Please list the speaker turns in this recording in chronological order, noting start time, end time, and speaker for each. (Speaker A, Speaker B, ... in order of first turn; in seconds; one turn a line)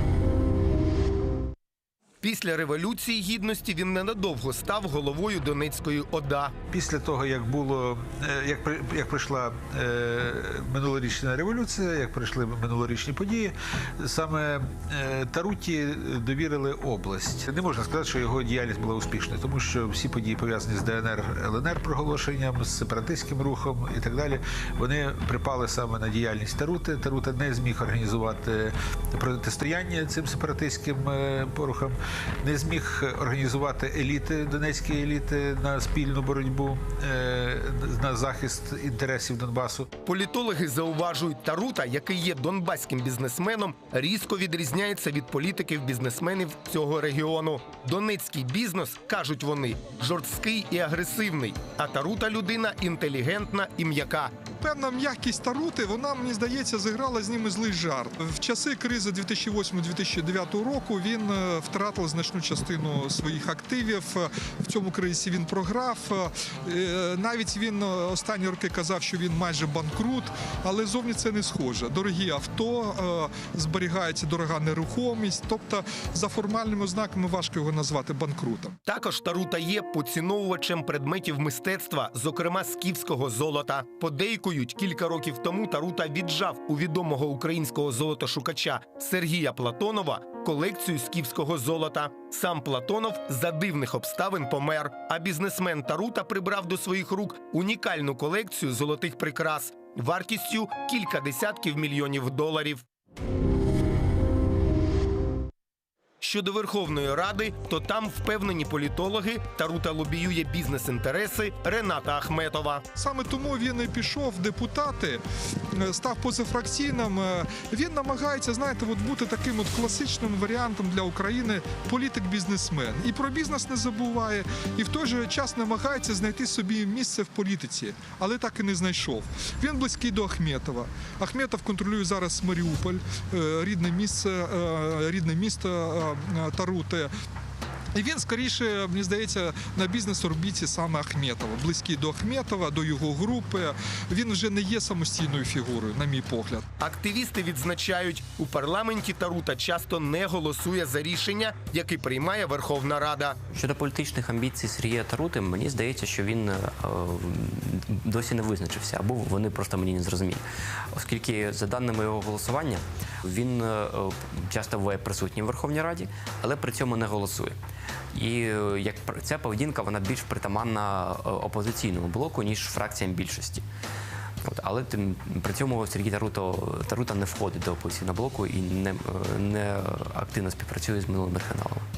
Speaker A: 2.2-6.5
Speaker B: 6.7-39.9
Speaker A: 40.0-54.3
Speaker C: 54.6-78.8
Speaker A: 78.9-102.8
Speaker A: 106.2-112.8
Speaker C: 113.0-137.1
Speaker C: 137.9-146.6
Speaker A: 146.8-153.4
Speaker D: 153.5-160.4
Speaker D: 160.9-167.6
Speaker D: 168.1-173.7
Speaker D: 174.4-181.8